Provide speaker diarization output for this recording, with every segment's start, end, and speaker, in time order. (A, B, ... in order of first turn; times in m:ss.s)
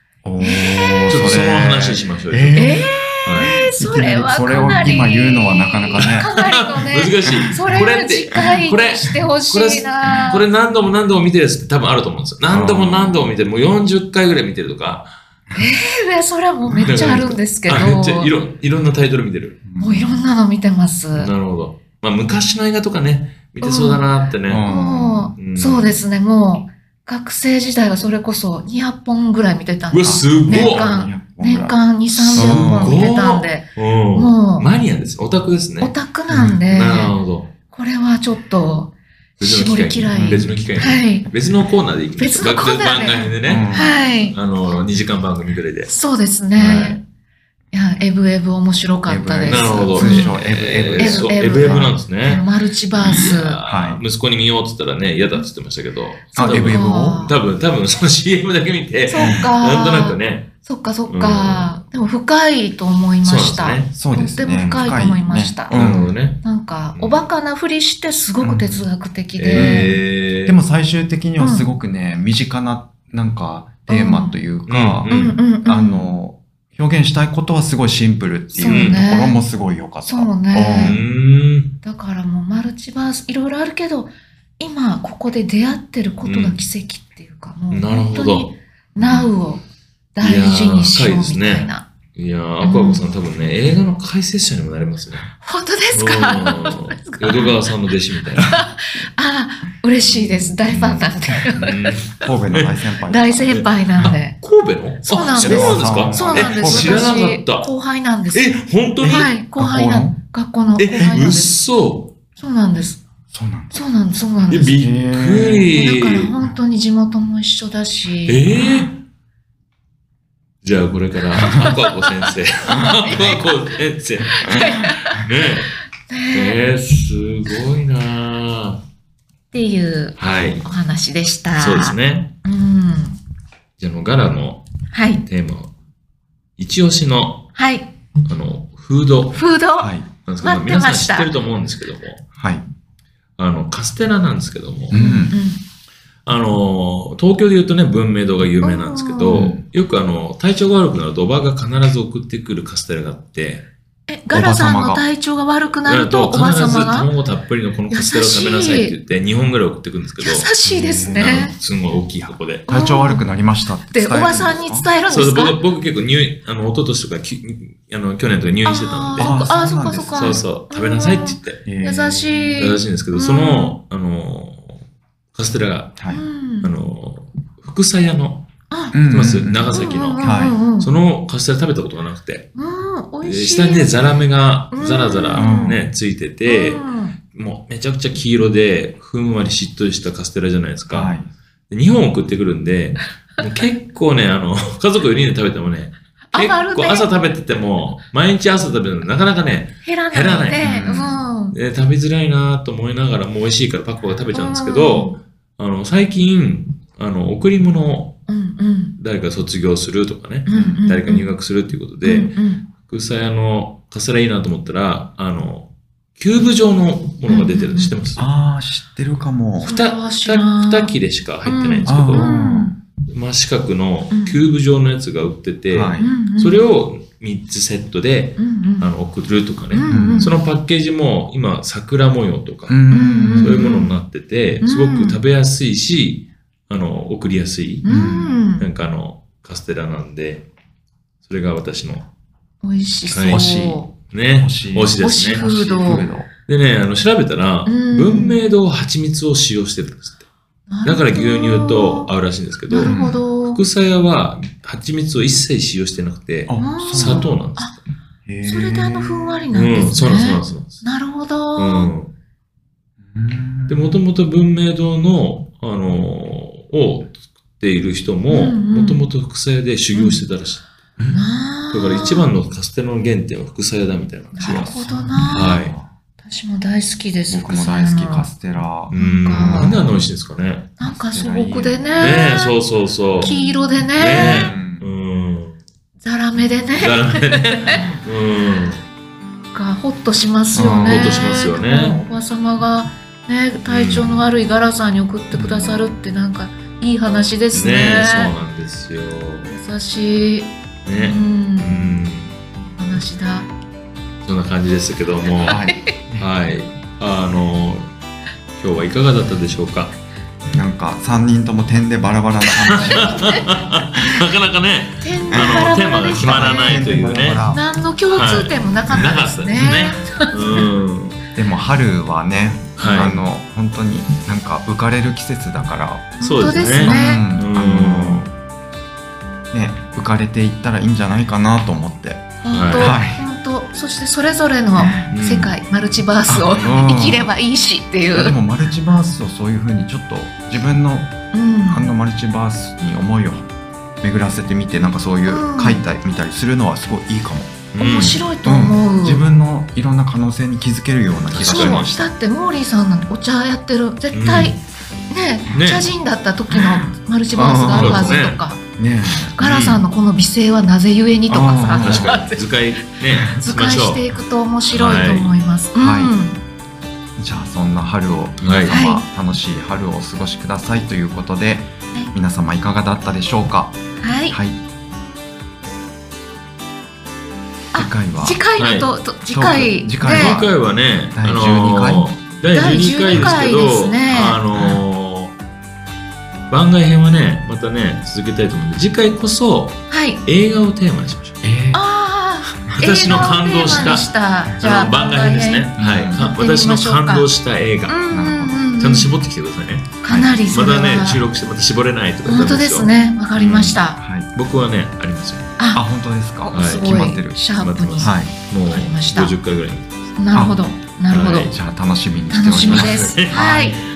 0:00.2-0:02.8 A
0:00.4-0:01.3 B
0:01.1-0:02.6 C
0:02.5-0:10.4 B
0:03.2-0:03.6 C
0:03.4-0:06.3 A
0:04.6-0:04.9 C
0:06.0-0:15.1 C
0:12.5-0:13.3 A
0:15.5-0:18.3 B
0:16.8-0:19.6 C
0:19.6-0:20.2 A
0:19.8-0:21.3 B
0:21.1-0:24.7 C
0:23.6-0:24.1 B
0:24.4-0:25.3 A
0:24.6-0:34.7 B
0:25.4-0:26.0 C
0:29.9-0:30.9 C
0:30.0-0:31.8 A
0:32.1-0:35.9 C
0:32.3-0:33.0 A
0:35.8-0:37.1 B
0:36.3-0:36.6 A
0:36.6-0:37.5 C
0:37.7-0:41.3 B
0:39.4-0:45.9 C
0:40.1-0:40.5 A
0:42.2-0:44.4 B
0:43.4-0:44.0 A
0:45.8-0:47.0 B
0:46.6-0:47.0 A
0:47.7-0:50.4 B
0:49.0-0:52.0 A
0:49.4-1:00.5 C
0:51.0-0:53.6 B
0:53.1-0:54.0 A
0:56.3-0:57.3 B
0:56.3-0:57.3 A
0:59.0-1:05.8 B
0:59.2-0:59.5 A
1:01.1-1:01.7 C
1:03.2-1:03.9 C
1:03.9-1:06.1 A
1:04.5-1:05.0 C
1:05.7-1:06.4 C
1:06.4-1:09.9 B
1:06.9-1:07.2 C
1:08.4-1:08.9 A
1:09.4-1:10.6 C
1:09.5-1:21.0 A
1:11.4-1:11.7 B
1:13.9-1:14.4 B
1:14.7-1:15.4 C
1:15.1-1:16.1 B
1:18.5-1:19.4 B
1:18.6-1:19.0 C
1:20.1-1:21.0 B
1:20.7-1:21.8 C
1:21.8-1:29.6 B
1:26.2-1:26.6 C
1:27.7-1:29.3 C
1:30.1-1:31.9 B
1:30.2-1:35.3 C
1:32.6-1:33.0 B
1:35.4-1:37.7 B
1:35.9-1:38.5 C
1:38.4-1:42.0 B
1:40.1-1:42.8 C
1:41.4-1:44.1 A
1:43.0-1:44.4 B
1:43.5-1:47.7 C
1:45.0-1:51.5 B
1:45.3-1:47.1 A
1:48.3-1:49.3 C
1:49.0-1:50.2 A
1:50.8-1:52.1 C
1:52.4-1:53.0 B
1:53.3-1:53.8 A
1:53.7-1:54.8 B
1:54.5-1:56.4 C
1:54.8-1:55.7 A
1:55.7-1:58.5 B
1:58.2-1:59.0 C
2:00.6-2:05.8 C
2:02.9-2:03.5 B
2:04.3-2:05.2 B
2:06.1-2:06.6 B
2:06.3-2:08.8 C
2:09.5-2:13.2 B
2:10.2-2:10.6 C
2:11.5-2:12.3 C
2:13.8-2:14.6 C
2:14.9-2:15.2 B
2:15.2-2:15.7 C
2:16.6-2:17.5 C
2:17.5-2:17.9 B
2:18.2-2:19.4 C
2:19.3-2:21.3 B
2:19.8-2:20.1 A
2:20.2-2:22.2 C
2:22.4-2:22.6 A
2:23.4-2:25.0 C
2:24.9-2:25.4 A
2:24.9-2:25.6 B
2:26.2-2:33.7 C
2:28.6-2:29.5 B
2:29.3-2:29.6 A
2:34.1-2:37.1 B
2:34.3-2:35.0 A
2:35.8-2:40.5 C
2:37.9-2:39.0 B
2:40.2-2:41.5 B
2:40.6-2:41.5 A
2:41.1-2:42.7 C
2:42.7-2:43.2 B
2:42.7-2:44.9 A
2:43.9-2:45.6 B
2:45.1-2:49.5 C
2:48.6-2:53.8 B
2:49.2-2:50.4 A
2:50.1-2:51.6 C
2:51.6-2:52.4 A
2:52.6-2:56.0 C
2:56.0-2:56.2 A
2:56.1-2:56.7 B
2:56.6-2:58.5 C
2:58.7-2:59.0 B
2:58.9-3:00.6 A
2:59.0-3:02.5 C
2:59.7-3:00.9 B
3:02.5-3:04.1 B
3:03.2-3:11.2 C
3:04.7-3:05.7 B
3:05.3-3:05.8 A
3:06.4-3:07.2 B
3:10.9-3:11.3 A
3:11.7-3:20.7 C
3:16.3-3:17.1 B
3:19.8-3:21.6 B
3:20.6-3:21.2 A
3:21.5-3:28.2 C
3:24.3-3:25.2 B
3:28.3-3:29.0 B
3:29.0-3:38.2 C
3:30.4-3:31.2 B
3:30.5-3:30.8 A
3:32.0-3:32.7 B
3:37.3-3:37.9 B
3:38.2-3:39.7 A
3:39.6-3:40.9 B
3:39.6-3:42.3 C
3:41.4-3:42.7 B
3:41.8-3:42.8 A
3:43.1-3:52.8 C
3:44.1-3:44.4 B
3:45.7-3:46.1 A
3:46.0-3:46.6 B
3:48.4-3:48.9 B
3:49.7-3:50.4 B
3:49.9-3:50.3 A
3:52.7-3:53.6 A
3:52.9-3:53.9 B
3:53.4-3:57.9 C
3:54.6-3:55.2 B
3:57.8-3:58.7 B
3:57.8-3:58.4 A
3:58.6-4:00.4 C
4:01.2-4:02.1 C
4:02.6-4:03.9 B
4:03.1-4:03.4 C
4:03.3-4:03.8 A
4:04.1-4:05.4 C
4:04.4-4:06.3 A
4:05.0-4:06.1 B
4:06.5-4:10.2 C
4:07.6-4:08.4 B
4:10.7-4:12.1 B
4:10.8-4:17.8 C
4:12.7-4:13.6 B
4:12.8-4:13.2 A
4:16.5-4:17.4 A
4:16.6-4:17.7 B
4:18.2-4:19.4 A
4:18.4-4:21.9 B
4:19.5-4:20.8 C
4:21.6-4:22.1 C
4:23.1-4:24.0 A
4:23.7-4:30.6 C
4:28.3-4:29.0 B
4:29.9-4:30.2 B
4:31.0-4:31.2 A
4:31.1-4:32.3 B
4:31.7-4:34.7 C
4:34.3-4:35.6 B
4:34.4-4:35.9 A
4:35.3-4:35.7 C
4:36.2-4:38.3 B
4:37.3-4:40.0 A
4:38.9-4:40.7 C
4:38.9-4:39.8 B
4:40.8-4:42.6 B
4:40.8-4:42.2 A
4:42.0-4:43.4 C
4:43.2-4:44.5 B
4:44.0-4:45.6 C
4:44.1-4:44.9 A
4:46.0-4:48.0 B
4:46.8-4:48.8 C
4:49.5-4:58.3 B
4:50.5-4:51.2 A
4:50.6-4:52.0 C
4:53.6-4:54.2 C
4:55.3-4:55.8 A
4:57.5-4:59.5 C
4:59.5-5:01.7 B
5:00.8-5:02.3 C
5:02.7-5:03.5 B
5:04.2-5:05.6 C
5:05.4-5:06.2 A
5:05.4-5:05.9 B
5:06.2-5:07.9 C
5:08.6-5:09.9 C
5:10.5-5:13.6 A
5:12.7-5:17.4 C
5:13.0-5:13.4 B
5:15.0-5:16.9 B
5:15.3-5:17.6 A
5:17.5-5:20.7 B
5:18.1-5:21.2 C
5:18.9-5:20.0 A
5:21.4-5:28.2 A
5:22.8-5:23.2 C
5:22.8-5:23.2 B
5:26.2-5:27.2 B
5:26.2-5:28.3 C
5:29.5-5:33.2 A
5:32.4-5:38.4 B
5:32.5-5:33.0 C
5:34.8-5:35.0 A
5:35.1-5:35.6 C
5:36.3-5:37.3 A
5:38.1-5:43.5 A
5:41.3-5:41.9 B
5:44.0-5:52.1 A
5:45.2-5:45.9 B
5:47.7-5:48.2 C
5:47.8-5:49.2 B
5:51.3-5:51.9 C
5:51.4-5:54.6 B
5:54.1-5:54.6 C
5:55.1-5:58.6 B
5:55.5-5:55.9 C
5:56.5-5:59.8 A
5:57.6-5:58.4 C
5:59.4-6:02.4 B
6:01.3-6:02.2 A
6:01.7-6:04.1 C
6:03.3-6:06.4 B
6:04.7-6:05.3 C
6:05.8-6:06.1 A
6:07.2-6:13.7 A
6:08.4-6:08.8 C
6:08.7-6:09.0 B
6:14.0-6:14.4 B
6:14.3-6:14.6 A
6:17.7-6:20.4 B
6:17.7-6:18.4 A
6:18.6-6:18.9 C
6:19.3-6:20.6 A
6:20.0-6:25.3 C
6:21.1-6:22.2 A
6:22.5-6:24.4 B
6:24.5-6:24.8 A
6:26.5-6:31.4 C
6:29.9-6:30.2 B
6:31.4-6:31.8 A
6:31.7-6:37.3 B
6:32.7-6:38.0 C
6:33.7-6:33.9 A
6:35.8-6:36.2 A
6:37.9-6:39.1 B
6:38.1-6:38.7 A
6:38.8-6:45.5 C
6:40.0-6:41.2 B
6:40.1-6:40.4 A
6:42.2-6:44.0 B
6:44.0-6:44.3 A
6:45.6-6:45.8 B
6:45.7-6:47.4 A
6:46.5-6:46.9 C
6:46.5-6:49.4 B
6:47.6-6:50.2 C
6:48.0-6:48.3 A
6:50.2-6:51.5 B
6:51.1-6:51.5 C
6:51.3-6:53.8 A
6:52.3-6:53.8 B
6:52.6-6:53.3 C